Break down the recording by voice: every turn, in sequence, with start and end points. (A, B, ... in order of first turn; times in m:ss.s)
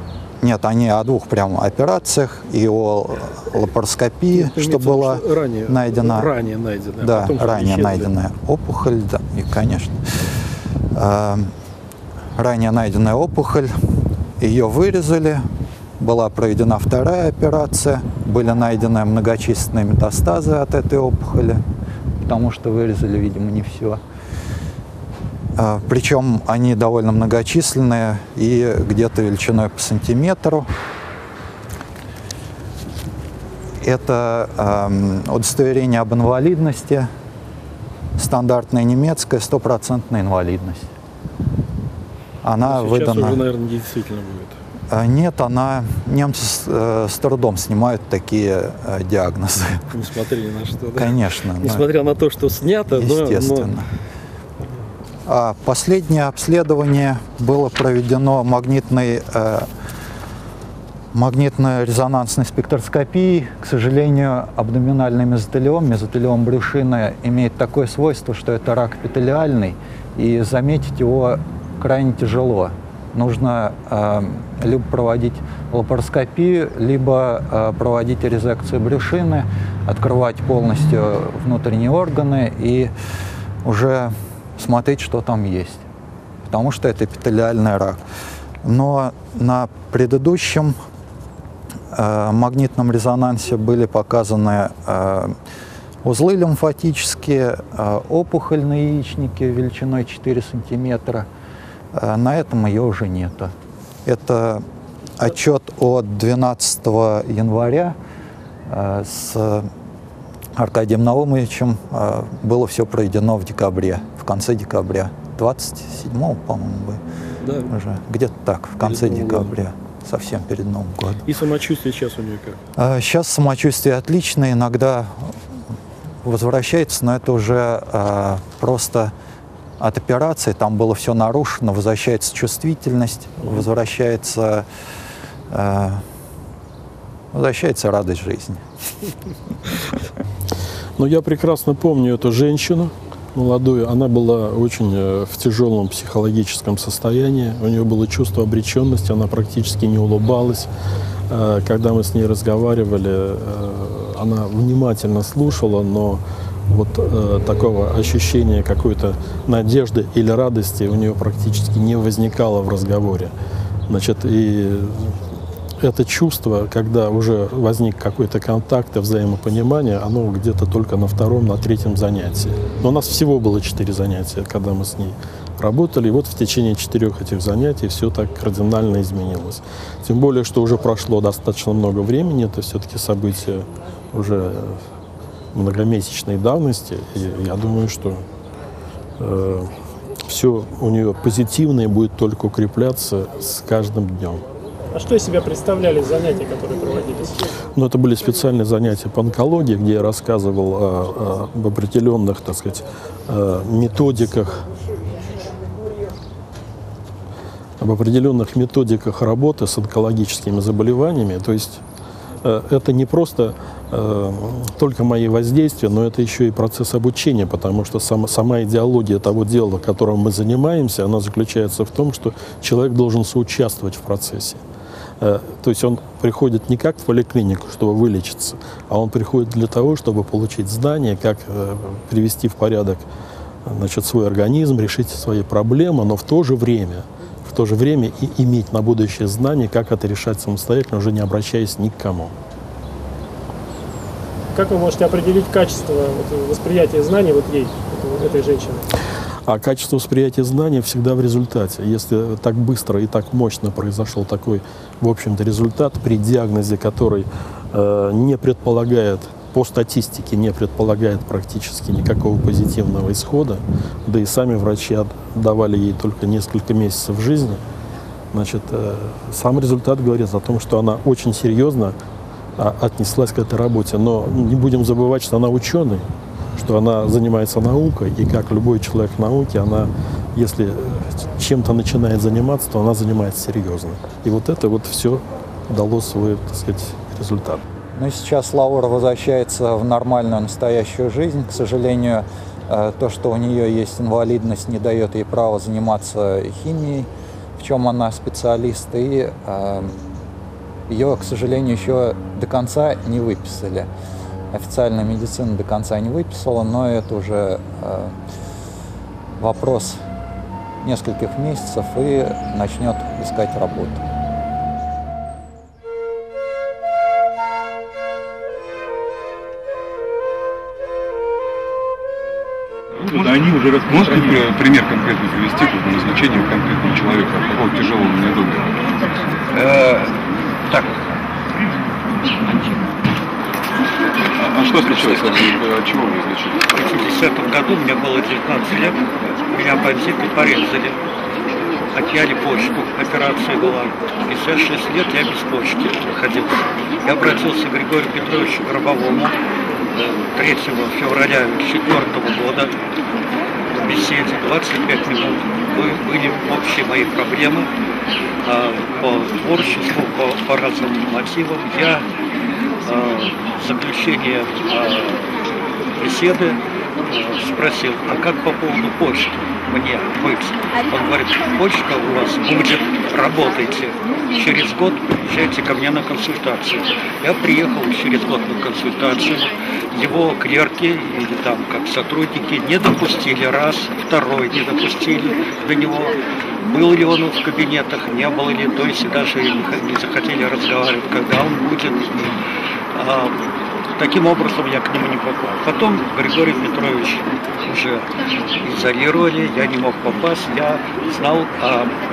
0:00.4-0:06.3 A
0:04.3-0:08.1 B
0:07.0-0:10.0 A
0:10.9-0:11.5 A
0:12.4-0:13.7 A
0:14.4-0:15.4 A
0:16.0-0:21.6 A
0:22.2-0:24.0 A
0:25.6-0:30.7 A
0:33.8-0:37.1 A
0:38.2-0:40.9 A
0:42.4-0:43.4 A
0:42.6-0:44.6 B
0:44.9-0:49.8 A
0:49.9-0:53.7 B
0:51.0-0:51.8 A
0:52.9-0:53.8 A
0:55.2-0:59.7 A
1:01.1-1:22.9 A
1:23.6-1:25.8 A
1:26.4-1:28.0 A
1:28.6-1:30.8 A
1:31.9-1:35.3 A
1:36.0-1:41.3 A
1:41.9-1:43.5 A
1:44.0-1:44.6 A
1:45.2-1:48.0 A
1:48.7-1:49.7 A
1:50.6-1:57.0 A
1:57.4-1:57.7 B
1:57.7-2:01.2 A
1:58.8-1:59.5 B
2:01.2-2:02.6 B
2:02.8-2:05.3 A
2:06.2-2:09.1 A
2:09.8-2:14.6 A
2:15.5-2:16.0 A
2:17.3-2:18.6 A
2:21.0-2:30.7 B
2:31.3-2:43.3 B
2:43.9-2:45.2 B
2:45.8-3:04.8 B
3:05.5-3:08.2 B
3:09.2-3:09.7 B
3:10.3-3:14.4 B
3:14.9-3:17.4 C
3:17.8-3:24.6 B
3:27.8-3:31.8 B
3:32.4-3:44.6 B
3:45.2-3:53.1 B
3:53.6-4:02.3 B
4:04.5-4:08.8 C
4:09.5-4:27.6 B
4:28.3-4:31.9 B
4:32.6-4:47.6 B
4:48.0-5:00.0 A
5:00.9-5:03.9 A
5:04.5-5:08.1 A
5:09.4-5:10.0 A
5:10.8-5:14.0 A
5:23.1-5:28.7 D
5:29.6-5:30.1 E
5:34.4-5:36.7 D
5:34.8-5:35.5 E
5:36.7-5:41.0 E
5:41.9-5:49.3 E
5:50.0-5:52.7 E
5:53.8-5:57.7 E
5:58.4-6:02.0 E
6:02.8-6:05.3 E
6:06.0-6:26.1 E
6:26.7-6:32.3 E
6:32.9-6:33.4 E
6:34.0-6:38.0 E
6:38.6-6:41.9 E